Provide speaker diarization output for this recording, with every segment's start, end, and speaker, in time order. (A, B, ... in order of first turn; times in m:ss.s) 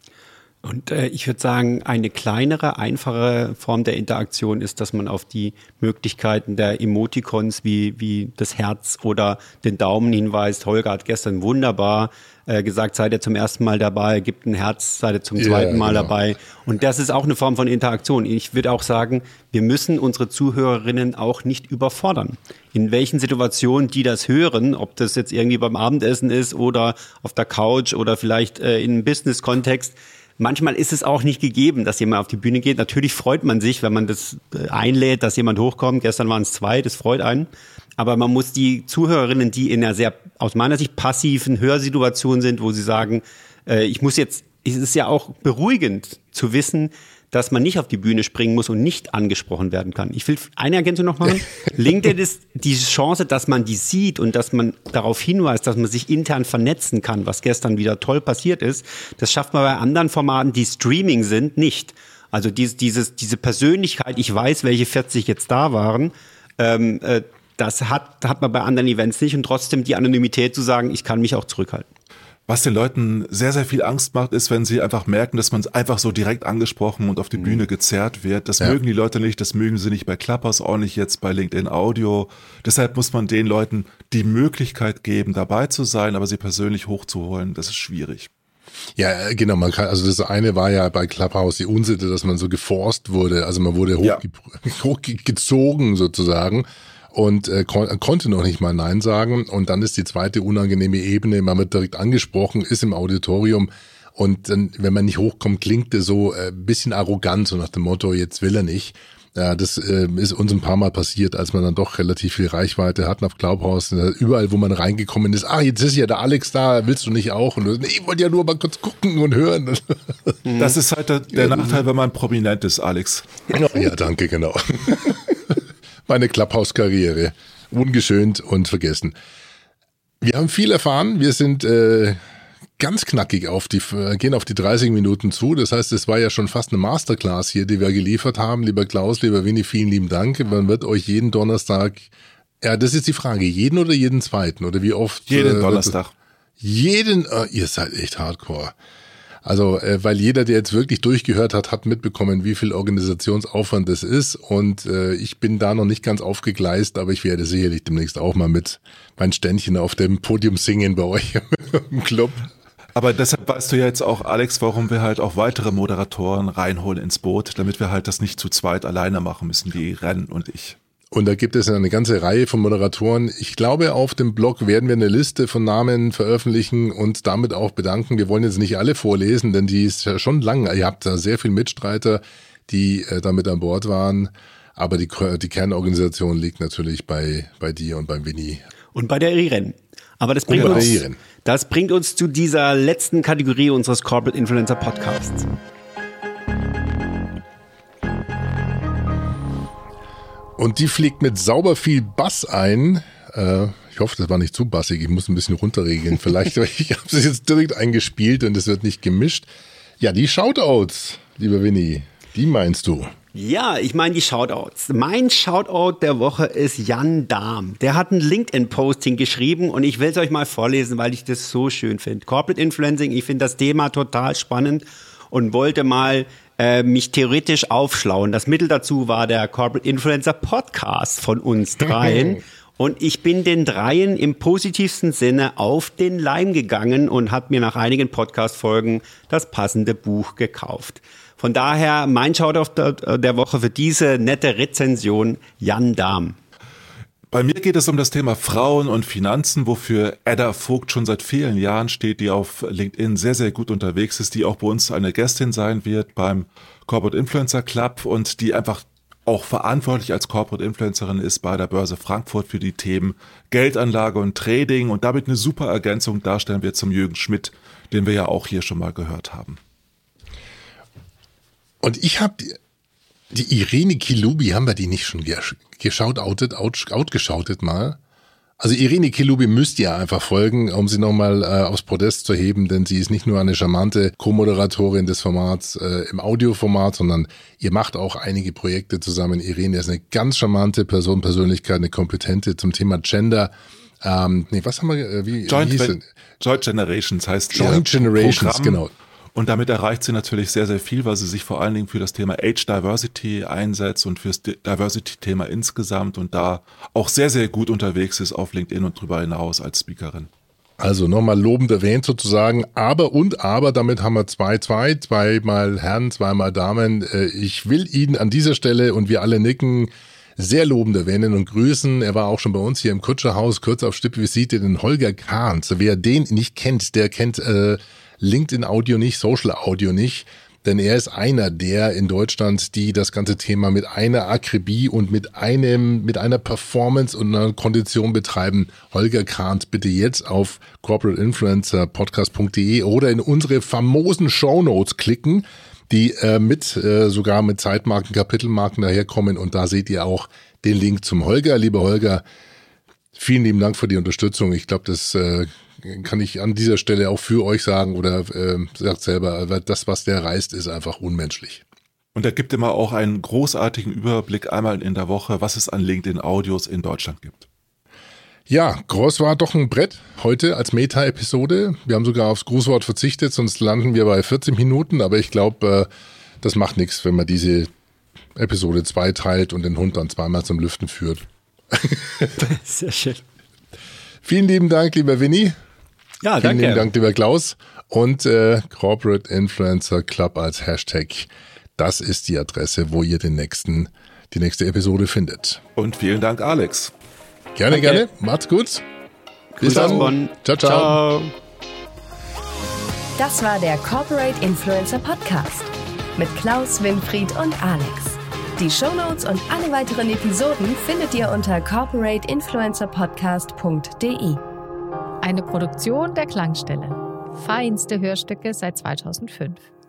0:00.6-1:11.9 A
0:15.4-0:16.1 B
1:12.5-1:28.3 C
1:17.4-1:17.6 A
1:29.0-2:00.4 B
2:00.4-2:00.8 A
2:00.6-2:03.3 C
2:01.4-2:01.8 B
2:03.5-2:09.1 B
2:10.2-2:12.2 B
2:12.8-2:22.1 B
2:22.6-2:26.0 B
2:25.3-2:26.1 C
2:26.6-2:28.7 B
2:29.4-2:42.5 B
2:43.0-2:50.8 C
2:51.1-3:08.6 B
3:08.9-3:15.5 A
3:10.5-3:11.2 B
3:10.6-3:10.9 C
3:20.6-3:29.5 B
3:30.0-3:33.1 B
3:33.3-4:06.4 A
4:07.3-4:29.6 C
4:31.8-4:32.6 B
4:33.3-4:38.0 B
4:38.6-4:56.0 B
4:55.5-4:58.8 C
4:57.5-4:58.9 B
4:59.4-5:10.3 C
5:10.8-5:52.2 B
5:53.2-6:01.6 B
6:02.2-6:07.5 C
6:08.5-6:15.9 B
6:16.4-6:17.7 B
6:18.4-6:22.4 B
6:22.4-6:23.2 A
6:24.2-6:25.6 B
6:26.2-6:26.9 A
6:26.4-6:35.6 B
6:35.8-6:36.9 C
6:37.6-6:38.8 B
6:37.7-6:38.0 A
6:39.6-6:41.3 A
6:39.6-6:41.0 B
6:43.2-6:54.4 D
6:55.2-6:59.6 E